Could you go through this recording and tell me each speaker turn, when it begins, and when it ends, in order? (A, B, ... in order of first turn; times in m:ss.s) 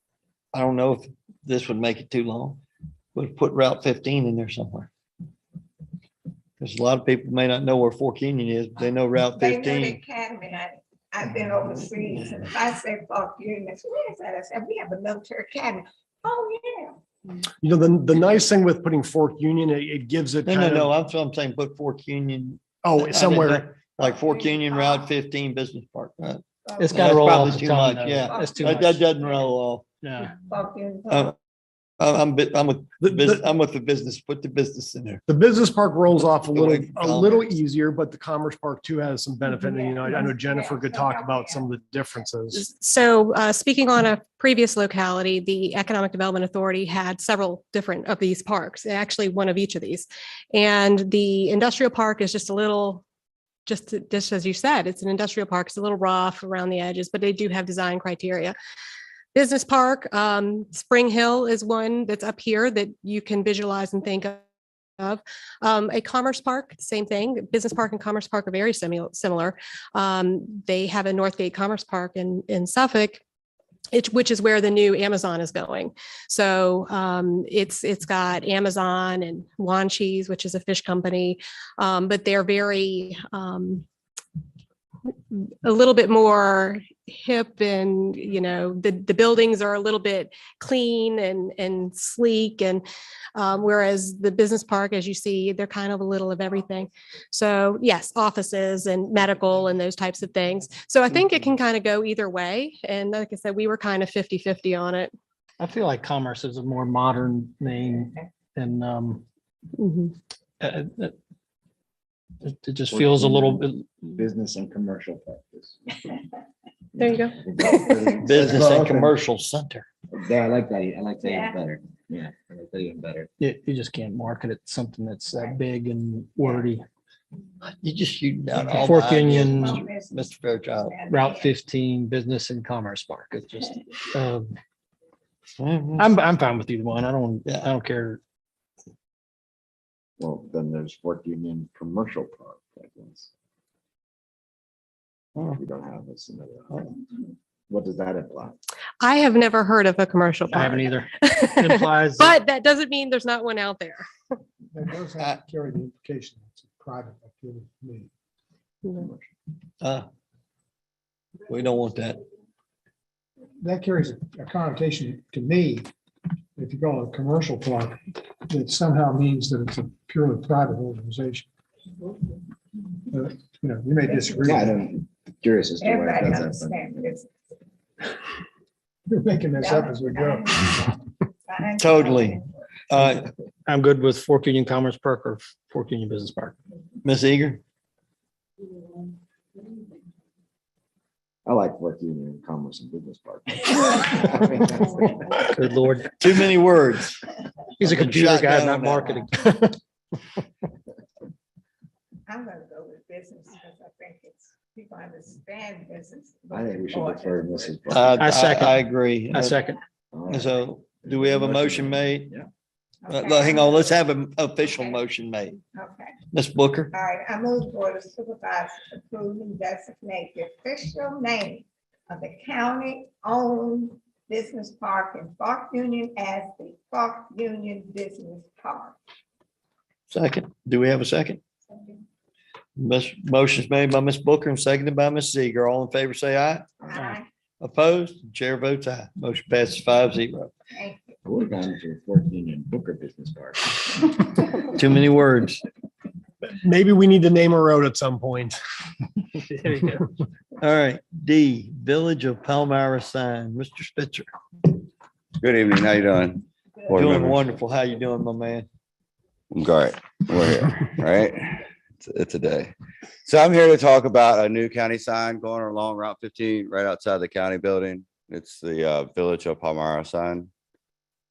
0:00.5-0:02.6 A
0:03.2-0:04.9 A
0:06.6-0:10.0 A
0:09.4-0:17.0 B
0:17.6-0:20.9 C
0:20.4-0:29.8 A
0:22.8-0:23.7 C
0:24.0-0:25.1 B
0:26.6-0:29.5 B
0:26.8-0:29.0 D
0:30.0-0:30.4 D
0:30.4-0:31.4 B
0:31.1-0:31.4 A
0:32.0-0:35.2 A
0:33.0-0:33.4 C
0:35.3-0:42.6 C
0:36.5-0:37.6 A
0:39.6-0:41.8 B
0:42.5-0:53.0 E
0:53.7-0:58.6 E
0:59.3-1:04.4 E
1:05.0-1:13.2 E
1:13.9-1:23.8 E
1:25.3-1:32.8 E
1:33.4-1:45.1 E
1:45.6-1:49.2 D
1:49.8-1:50.1 E
1:50.6-1:51.2 D
1:52.4-1:54.1 D
1:52.9-1:56.0 F
1:57.0-1:59.2 F
1:57.0-1:58.1 E
1:58.2-1:59.9 A
2:00.1-2:03.3 F
2:03.4-2:06.8 D
2:07.6-2:11.0 A
2:08.5-2:09.9 D
2:09.0-2:11.5 B
2:11.0-2:14.5 D
2:15.6-2:16.1 A
2:16.0-2:18.2 D
2:20.2-2:23.3 F
2:25.5-2:26.9 F
2:27.7-2:28.6 F
2:29.0-2:34.1 E
2:30.5-2:32.4 D
2:34.7-2:38.1 G
2:38.8-2:39.1 E
2:41.5-2:42.2 A
2:43.7-2:45.8 G
2:46.6-2:48.0 G
2:48.5-2:51.5 G
2:53.1-2:54.7 G
2:54.1-2:54.4 B
2:54.4-2:56.9 F
2:55.8-2:57.3 B
2:59.1-3:00.5 G
2:59.6-3:02.5 B
3:01.8-3:03.3 A
3:02.9-3:06.6 D
3:07.0-3:07.6 A
3:11.4-3:15.5 F
3:15.5-3:16.1 D
3:16.2-3:17.2 A
3:17.8-3:19.8 D
3:17.8-3:19.3 A
3:22.3-3:28.1 B
3:26.5-3:28.5 F
3:27.9-3:29.6 A
3:28.1-3:28.8 D
3:29.3-3:29.8 D
3:30.1-3:32.5 F
3:30.3-3:32.3 A
3:33.0-3:34.1 B
3:33.1-3:35.6 A
3:34.6-3:35.0 B
3:35.8-3:36.2 B
3:36.3-3:36.9 A
3:36.9-3:49.0 B
3:50.1-3:51.4 A
3:52.8-3:56.7 A
3:56.9-3:57.3 B
3:57.6-4:00.5 A
4:00.7-4:01.2 B
4:01.2-4:04.2 F
4:04.7-4:05.6 A
4:06.6-4:08.6 C
4:09.4-4:10.0 D
4:10.6-4:14.3 A
4:15.4-4:17.4 H
4:16.9-4:18.7 A
4:19.5-4:22.7 H
4:23.2-4:30.5 H